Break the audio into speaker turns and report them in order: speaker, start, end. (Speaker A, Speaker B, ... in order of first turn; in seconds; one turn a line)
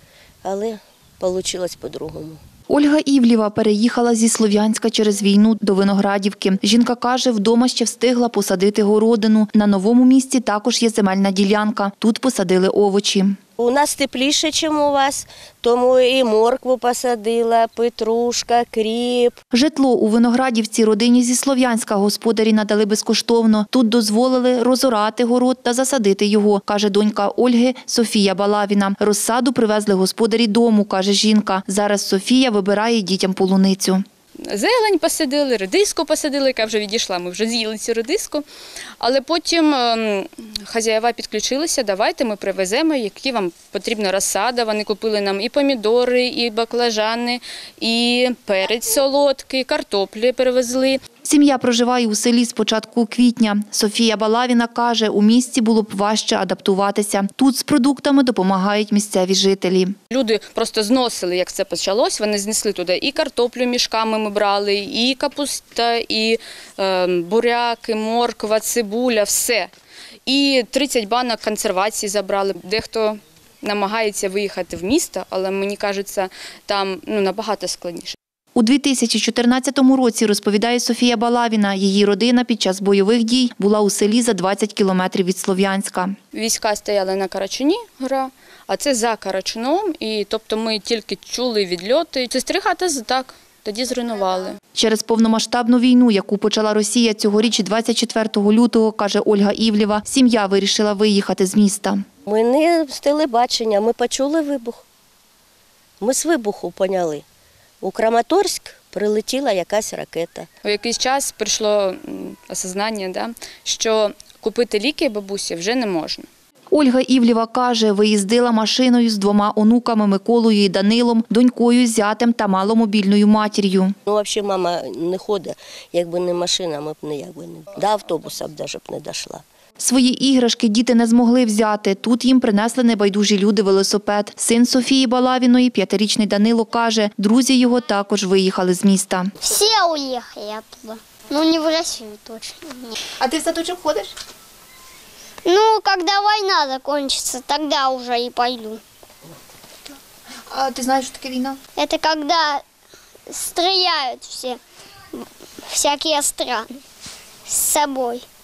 Speaker A: 0.4-2.4
Speaker B: 2.7-13.4
Speaker A: 13.6-19.4
Speaker B: 19.5-34.0
Speaker C: 34.4-38.4
Speaker C: 39.0-51.0
Speaker B: 51.2-59.9
Speaker C: 60.1-69.7
Speaker C: 70.3-78.2
Speaker B: 78.5-86.2
Speaker C: 86.3-94.6
Speaker B: 94.8-102.0
Speaker A: 102.3-104.8
Speaker A: 106.0-107.2
Speaker A: 107.8-110.5
Speaker C: 110.6-116.3
Speaker B: 116.7-123.9
Speaker A: 124.1-129.4
Speaker B: 129.8-139.3
Speaker D: 139.4-142.9
Speaker B: 143.2-144.1
Speaker D: 145.4-148.8
Speaker B: 150.5-151.6
Speaker D: 151.8-152.6
Speaker D: 153.3-154.6
Speaker D: 155.2-156.8
Speaker D: 157.5-158.2